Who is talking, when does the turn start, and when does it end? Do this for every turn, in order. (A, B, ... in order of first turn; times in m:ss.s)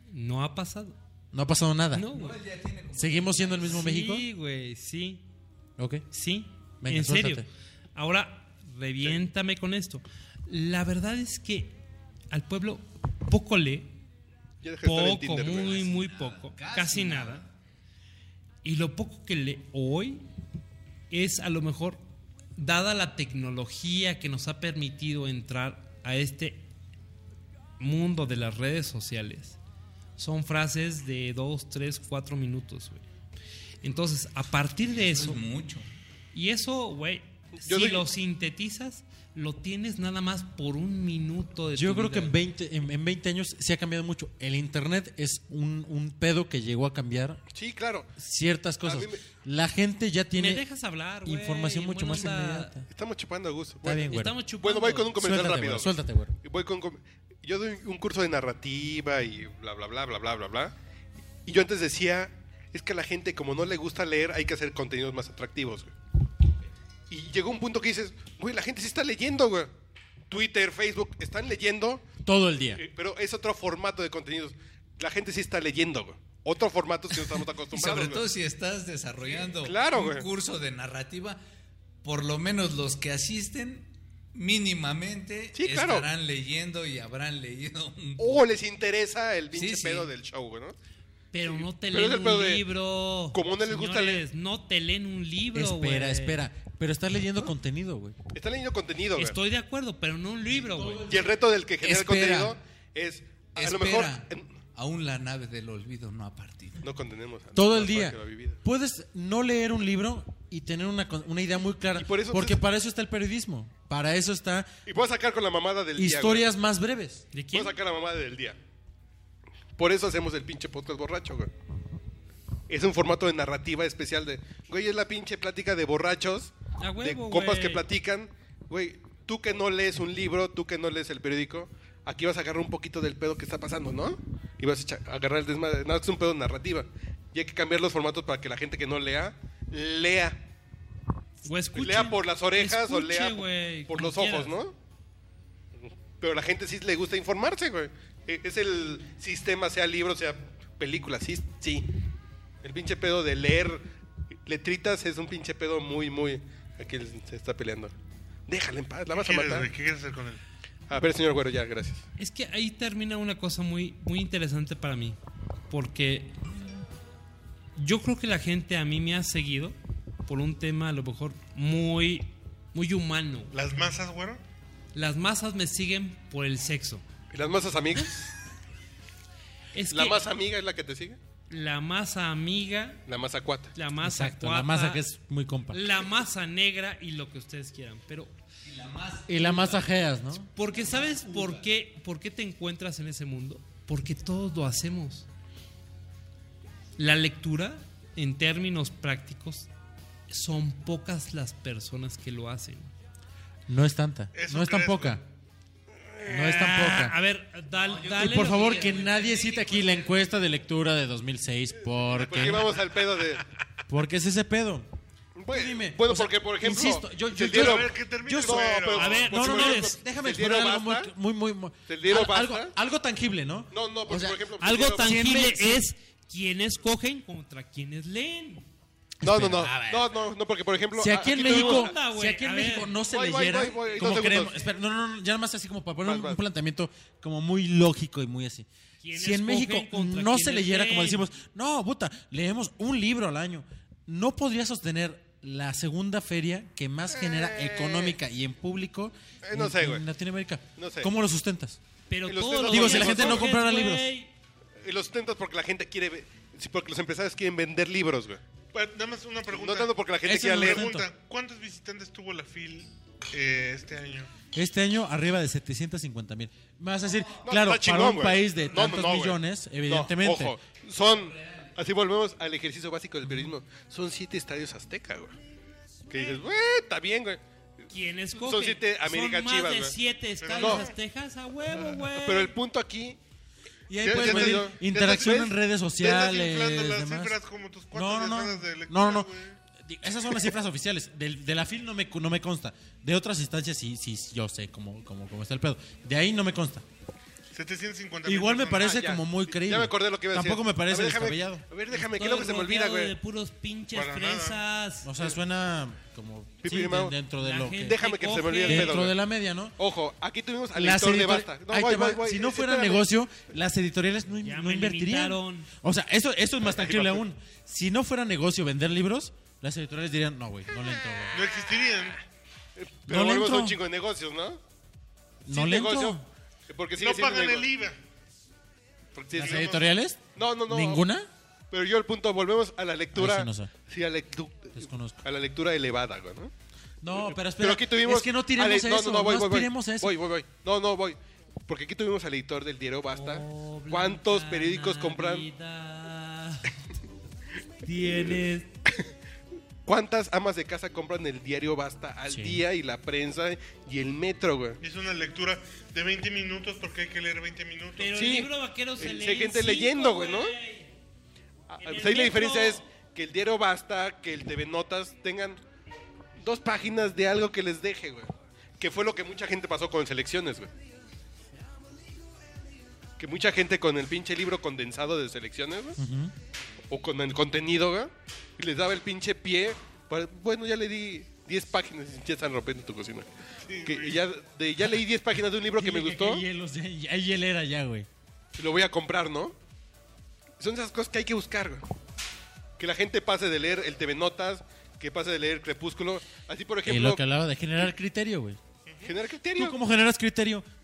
0:00.1-0:01.0 A
0:01.3-0:02.1 B
0:01.9-0:02.4 A
0:02.1-0:03.8 C
0:03.0-0:04.3 B
0:03.7-0:05.2 A
0:05.8-0:06.0 B
0:06.1-0:11.8 A
0:06.8-0:07.5 B
0:12.3-0:13.9 A
0:14.6-0:15.8 D
0:14.8-0:17.4 A
0:15.5-0:17.5 C
0:18.6-0:20.3 A
0:21.1-0:22.0 A
0:22.6-0:26.7 A
0:27.8-0:29.6 A
0:30.2-0:33.0 A
0:33.8-0:35.4 A
0:35.0-0:35.9 C
0:36.3-0:42.4 A
0:37.6-0:38.1 D
0:41.7-0:47.4 B
0:47.5-0:48.2 D
0:48.2-0:50.6 B
0:48.8-0:49.2 D
0:50.4-0:52.7 A
0:51.2-0:52.9 B
0:52.9-0:54.1 D
0:53.8-0:54.4 B
0:54.0-0:55.2 A
0:54.6-1:00.7 D
0:55.2-0:56.4 B
1:01.4-1:05.9 D
1:07.1-1:09.7 D
1:10.3-1:12.0 D
1:12.2-1:12.8 B
1:12.8-1:18.3 D
1:17.7-1:21.4 C
1:19.3-1:20.3 D
1:22.0-1:28.4 C
1:25.6-1:26.1 D
1:28.2-1:30.8 D
1:29.5-1:30.1 C
1:31.3-1:36.4 A
1:31.4-1:32.6 D
1:33.3-1:34.2 D
1:35.5-1:38.2 B
1:38.3-1:39.4 D
1:39.2-1:41.1 A
1:40.5-1:41.3 B
1:41.1-1:44.5 D
1:41.8-1:42.6 C
1:43.6-1:46.8 C
1:46.8-1:48.6 D
1:47.6-1:54.7 B
1:51.9-1:52.6 D
1:54.9-1:56.4 D
1:56.0-1:57.3 B
1:57.3-1:57.8 A
1:57.5-1:58.6 D
1:59.8-2:01.5 D
2:02.7-2:20.4 D
2:06.8-2:07.8 A
2:21.4-2:24.6 A
2:21.7-2:24.8 D
2:26.2-2:31.9 D
2:32.6-2:33.9 D
2:34.5-2:37.9 D
2:38.5-2:39.7 D
2:39.1-2:40.4 E
2:40.9-2:42.0 D
2:42.2-2:45.2 A
2:45.7-2:46.4 A
2:47.8-2:53.5 A
2:53.5-2:54.4 E
2:54.9-2:57.0 A
2:57.3-2:58.3 D
2:59.7-3:00.2 A
2:59.9-3:01.2 D
3:01.5-3:03.0 A
3:03.1-3:03.7 D
3:03.8-3:05.0 A
3:04.0-3:06.0 B
3:05.7-3:08.3 A
3:08.6-3:09.9 C
3:09.3-3:10.5 B
3:10.6-3:15.3 A
3:10.6-3:11.7 C
3:17.0-3:19.7 A
3:20.3-3:22.9 A
3:23.7-3:25.2 B
3:24.3-3:25.2 E
3:26.2-3:27.2 B
3:26.3-3:29.0 A
3:27.8-3:30.2 C
3:28.2-3:32.8 B
3:32.0-3:33.4 D
3:33.9-3:34.9 B
3:35.4-3:41.1 D
3:35.5-3:44.4 B
3:37.4-3:39.3 E
3:39.0-3:39.9 A
3:41.9-3:42.7 D
3:43.7-3:45.4 D
3:44.6-3:48.7 A
3:45.0-3:45.8 B
3:49.2-3:50.2 B
3:49.2-3:52.0 D
3:51.0-4:11.8 B
3:51.2-3:53.0 A
3:53.0-3:54.7 D
3:53.8-3:54.4 A
3:56.0-3:56.4 D
3:59.0-4:01.2 A
4:07.1-4:08.2 D
4:09.4-4:10.0 D
4:10.8-4:11.1 D
4:12.1-4:14.3 A
4:12.3-4:13.4 D
4:12.7-4:14.1 B
4:14.8-4:18.4 D
4:18.7-4:24.3 E
4:19.5-4:20.9 D
4:20.2-4:21.1 B
4:24.5-4:30.6 B
4:27.4-4:35.4 D
4:31.2-4:31.7 C
4:36.1-4:37.4 D
4:37.9-4:42.5 A
4:38.4-4:40.0 D
4:40.4-4:40.9 E
4:40.6-4:40.8 D
4:42.2-4:43.2 D
4:43.9-4:47.4 B
4:44.0-4:45.5 D
4:44.0-4:49.6 E
4:47.9-4:56.8 B
4:57.5-4:59.0 E
4:58.2-5:01.6 B
4:58.8-5:03.1 D
5:01.9-5:05.1 A
5:03.9-5:04.6 E
5:05.0-5:08.0 B
5:06.6-5:07.2 D
5:07.4-5:09.1 A
5:07.8-5:09.2 D
5:08.6-5:09.8 B
5:09.8-5:13.0 D
5:10.7-5:21.5 B
5:14.4-5:15.7 A
5:16.6-5:17.2 D
5:21.3-5:22.2 E
5:22.8-5:24.6 D
5:23.1-5:23.8 B
5:25.5-5:26.2 B
5:25.5-5:27.7 D
5:27.0-5:28.0 E
5:29.2-5:31.0 D
5:29.3-5:31.3 B
5:31.7-5:36.5 D
5:33.1-5:33.7 B
5:34.8-5:35.2 B
5:37.0-5:40.2 B
5:37.1-5:45.5 D
5:43.1-5:46.8 A
5:47.8-5:48.7 A
5:49.9-5:54.8 D
5:52.3-5:52.6 B
5:54.8-5:58.2 E
5:58.0-6:00.9 A
5:58.2-6:00.6 D
6:01.7-6:05.6 D
6:01.8-6:02.8 A
6:06.4-6:10.7 D
6:13.2-6:16.0 D
6:16.0-6:16.3 B
6:16.9-6:23.3 D
6:23.7-6:24.2 E
6:23.8-6:26.4 D
6:25.7-6:28.1 B
6:28.6-6:29.6 D
6:30.6-6:31.8 D
6:32.8-6:37.2 D
6:36.8-6:38.6 B
6:39.0-6:39.8 D
6:39.6-6:40.7 B